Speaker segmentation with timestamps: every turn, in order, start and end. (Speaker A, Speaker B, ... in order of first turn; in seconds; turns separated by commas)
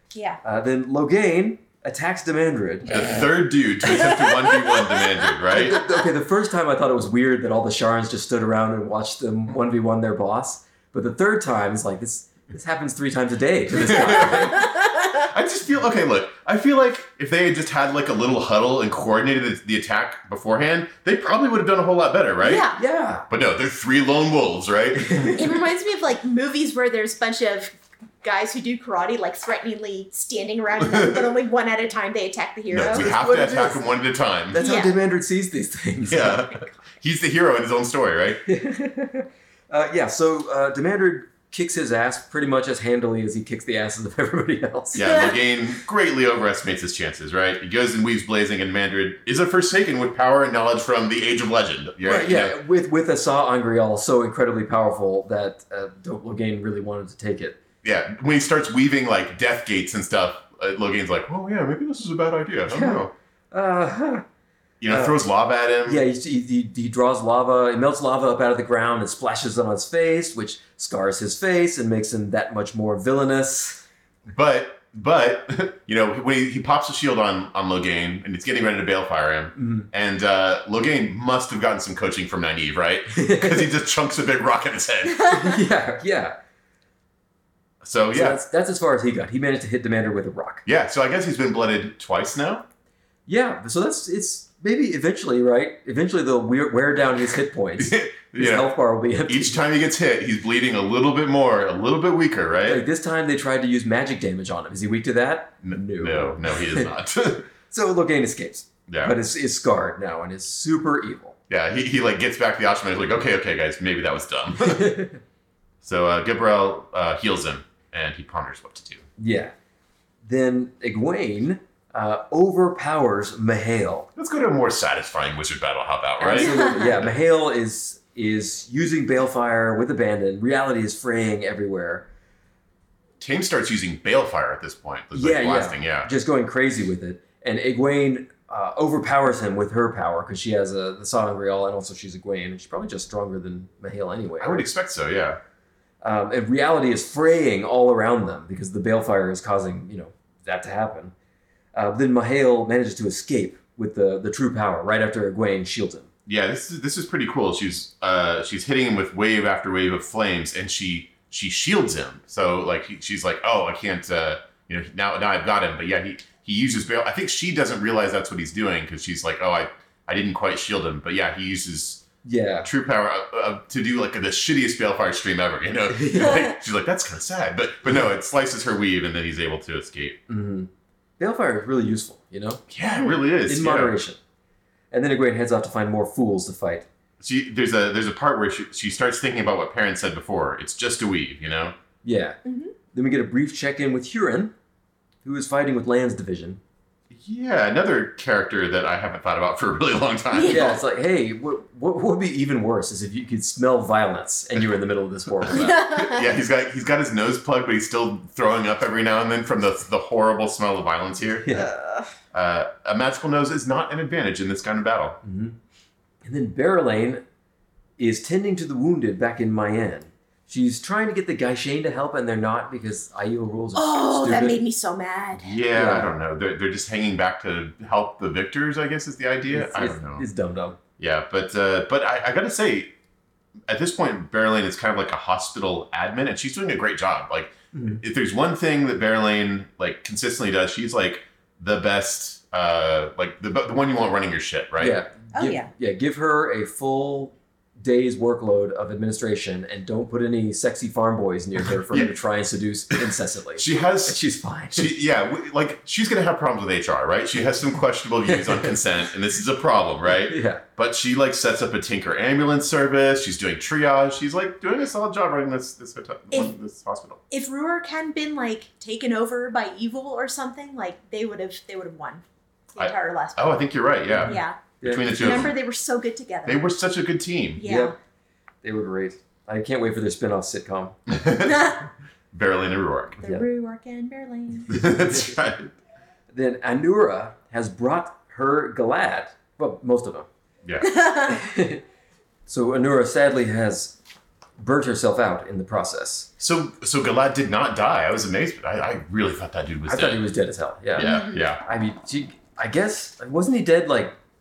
Speaker A: 0.1-0.4, Speaker B: 0.4-3.3, Speaker C: 2.9-5.9, Speaker A: 3.9-5.3, Speaker B: 5.5-14.7, Speaker C: 13.8-14.7, Speaker A: 14.2-15.1, Speaker C: 15.2-22.6, Speaker A: 22.4-22.8, Speaker B: 22.7-23.2, Speaker C: 23.3-25.4, Speaker B: 24.9-25.6, Speaker A: 25.3-33.1, Speaker C: 30.8-31.2, Speaker C: 32.7-34.6, Speaker B: 32.8-33.8, Speaker B: 34.5-36.5, Speaker A: 34.6-35.0, Speaker C: 36.0-38.4, Speaker B: 38.5-45.1, Speaker C: 44.9-52.6, Speaker B: 52.0-57.6, Speaker C: 57.8-63.1, Speaker B: 62.7-64.2, Speaker C: 64.8-66.0, Speaker B: 64.9-65.2, Speaker B: 65.9-73.8, Speaker C: 74.3-85.3, Speaker B: 79.6-79.9, Speaker B: 83.2-83.7, Speaker B: 85.2-86.4, Speaker C: 87.8-88.4, Speaker B: 88.1-90.7, Speaker C: 90.7-92.7, Speaker B: 93.3-99.6, Speaker C: 97.8-98.7, Speaker C: 99.3-102.8, Speaker B: 102.7-106.9, Speaker C: 105.6-107.5, Speaker B: 107.7-111.4, Speaker C: 108.9-109.2, Speaker C: 111.5-115.0, Speaker B: 114.6-115.2, Speaker C: 115.8-119.1, Speaker B: 119.2-119.5, Speaker B: 120.2-124.1, Speaker C: 124.2-127.1, Speaker B: 126.2-132.1, Speaker A: 126.4-126.8, Speaker C: 133.2-136.1, Speaker B: 135.1-144.7, Speaker C: 144.4-145.4, Speaker B: 146.0-151.1, Speaker B: 151.7-156.1, Speaker C: 156.3-172.1, Speaker B: 172.2-172.7, Speaker C: 172.6-180.2, Speaker B: 175.9-176.5, Speaker B: 180.3-182.6, Speaker C: 182.7-184.0, Speaker B: 183.5-184.2, Speaker B: 184.9-186.9, Speaker C: 187.2-191.8, Speaker B: 192.0-192.4, Speaker A: 192.4-192.7, Speaker B: 192.9-194.5, Speaker B: 195.2-196.6, Speaker C: 197.1-200.8, Speaker A: 200.3-200.8, Speaker B: 200.5-205.9, Speaker C: 205.5-211.5, Speaker A: 205.5-206.2, Speaker B: 211.4-211.7, Speaker A: 211.5-212.1, Speaker C: 212.3-215.2, Speaker B: 215.2-215.6, Speaker B: 216.2-217.2, Speaker B: 218.0-224.6, Speaker A: 223.8-225.6, Speaker C: 225.4-230.2, Speaker B: 225.7-226.1, Speaker B: 229.5-230.8, Speaker C: 231.0-232.9, Speaker C: 233.7-245.0, Speaker B: 237.7-238.0, Speaker B: 244.8-254.9, Speaker A: 245.3-245.7, Speaker C: 253.6-254.2, Speaker C: 254.7-267.2, Speaker B: 258.3-258.8, Speaker B: 260.3-260.6, Speaker A: 267.3-272.2, Speaker A: 272.8-273.6, Speaker C: 272.8-275.5, Speaker B: 274.1-275.5, Speaker A: 274.2-276.6, Speaker C: 276.5-277.6, Speaker A: 277.6-277.9, Speaker B: 277.6-277.9, Speaker B: 278.6-281.0, Speaker C: 281.1-281.8, Speaker A: 281.4-281.8, Speaker C: 282.3-283.2, Speaker A: 283.2-284.8, Speaker C: 284.7-285.7, Speaker B: 285.0-285.3, Speaker B: 286.3-290.3, Speaker C: 290.6-291.0, Speaker A: 290.8-291.4, Speaker B: 291.3-291.8, Speaker B: 292.5-294.0, Speaker B: 294.6-296.3, Speaker C: 296.4-300.2, Speaker B: 299.9-304.1, Speaker C: 300.9-301.6, Speaker A: 301.0-301.5